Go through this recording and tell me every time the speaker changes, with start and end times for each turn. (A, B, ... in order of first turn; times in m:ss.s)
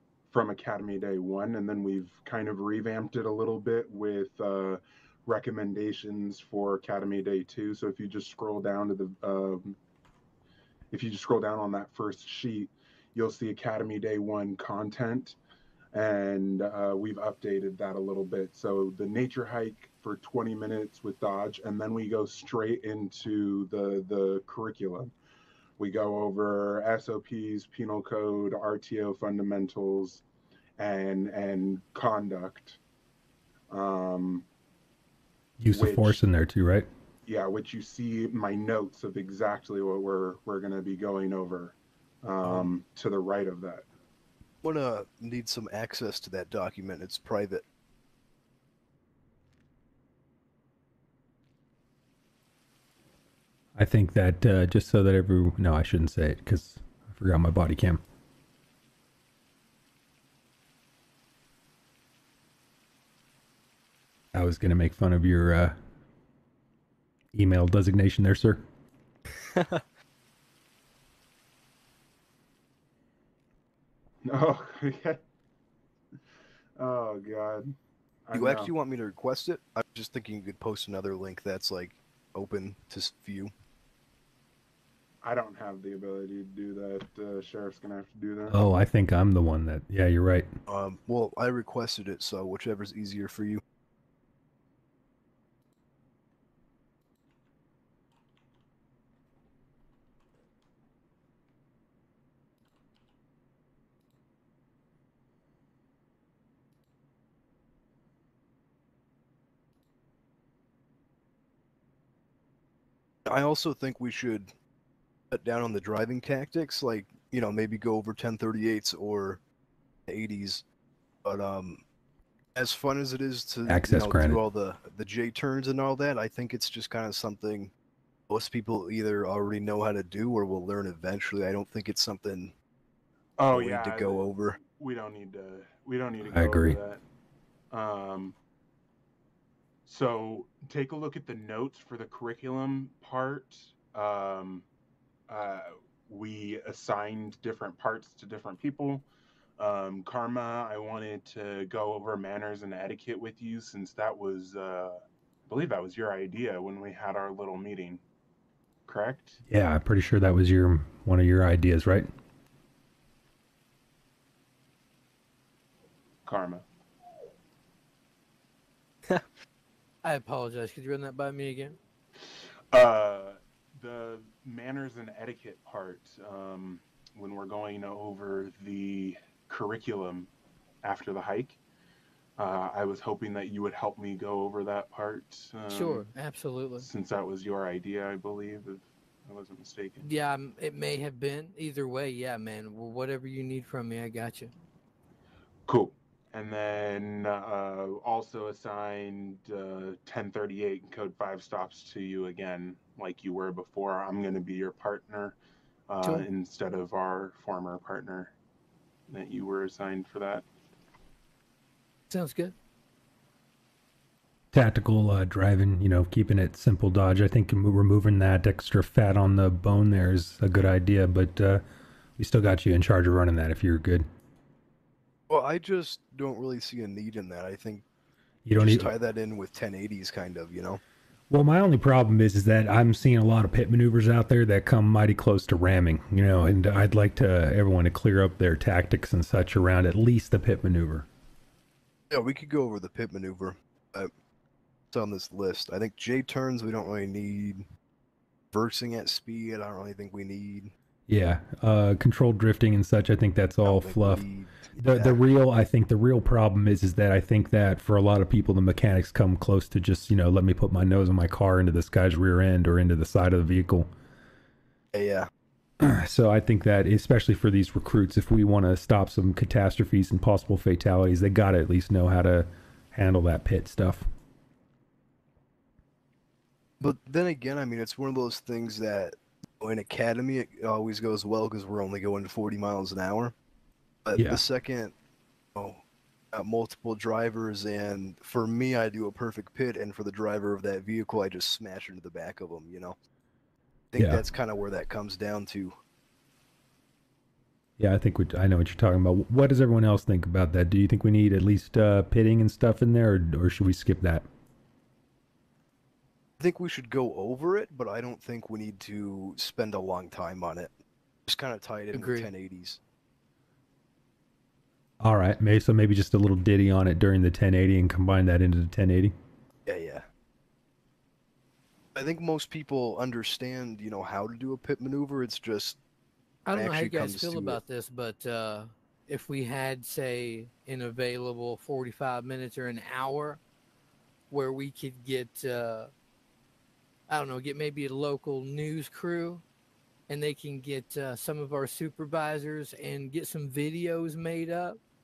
0:00.3-0:09.8 A
0:10.9-0:15.4 A
0:15.9-0:25.1 A
0:25.8-0:30.2 A
0:30.8-0:32.8 A
0:33.7-0:34.5 A
0:35.6-0:36.9 B
0:35.7-0:36.2 A
0:37.3-0:43.8 A
0:42.4-0:42.7 C
0:44.6-0:47.6 C
0:53.8-0:58.0 B
1:04.3-1:05.8 B
1:07.3-1:08.6 B
1:09.4-1:09.8 C
1:14.2-1:15.2 A
1:16.8-1:17.8 A
1:18.3-1:18.7 A
1:18.3-1:23.5 C
1:25.2-1:28.6 A
1:28.5-1:30.5 B
1:30.7-1:33.6 C
1:53.3-1:54.5 C
1:55.3-1:59.4 C
2:00.1-2:00.6 C
2:01.2-2:01.8 C
2:02.6-2:07.7 C
2:03.7-2:04.4 B
2:08.3-2:12.5 C
2:13.4-2:17.0 A
2:13.5-2:14.6 C
2:16.2-2:16.8 B
2:17.7-2:18.4 A
2:19.9-2:24.7 A
2:25.3-2:29.0 A
2:29.6-2:38.0 A
2:38.9-2:39.4 A
2:39.5-2:42.1 B
2:46.3-2:46.6 A
2:50.0-2:51.8 D
2:52.2-3:00.3 A
3:00.8-3:01.6 A
3:02.4-3:06.1 A
3:05.7-3:06.9 D
3:06.8-3:10.1 A
3:10.0-3:14.5 D
3:15.7-3:25.4 A
3:25.9-3:28.3 A
3:29.1-3:30.5 A
3:32.1-3:32.6 D
3:34.5-3:41.6 B
3:42.2-3:44.1 B
3:45.3-3:47.8 C
3:48.4-3:48.9 B
3:48.6-3:50.8 C
3:51.3-4:01.1 B
4:02.1-4:04.1 C
4:04.9-4:07.7 C
4:08.5-4:10.7 C
4:11.1-4:14.2 B
4:13.6-4:15.2 C
4:14.8-4:23.9 B
4:24.9-4:25.3 C
4:25.8-4:34.1 B
4:36.8-4:43.4 C
4:44.1-4:44.9 C
4:44.1-4:44.4 B
4:45.6-4:45.8 C
4:46.3-4:53.0 C
4:53.9-4:55.8 C
4:54.0-4:54.2 B
4:57.8-5:04.3 B
5:06.4-5:10.7 C
5:11.3-5:12.8 C
5:11.9-5:12.3 D
5:15.0-5:19.1 B
5:19.7-5:20.1 C
5:22.0-5:25.8 C
5:26.5-5:33.4 D
5:26.5-5:27.6 C
5:34.3-5:35.9 D
5:37.1-5:39.4 D
5:40.1-5:44.8 D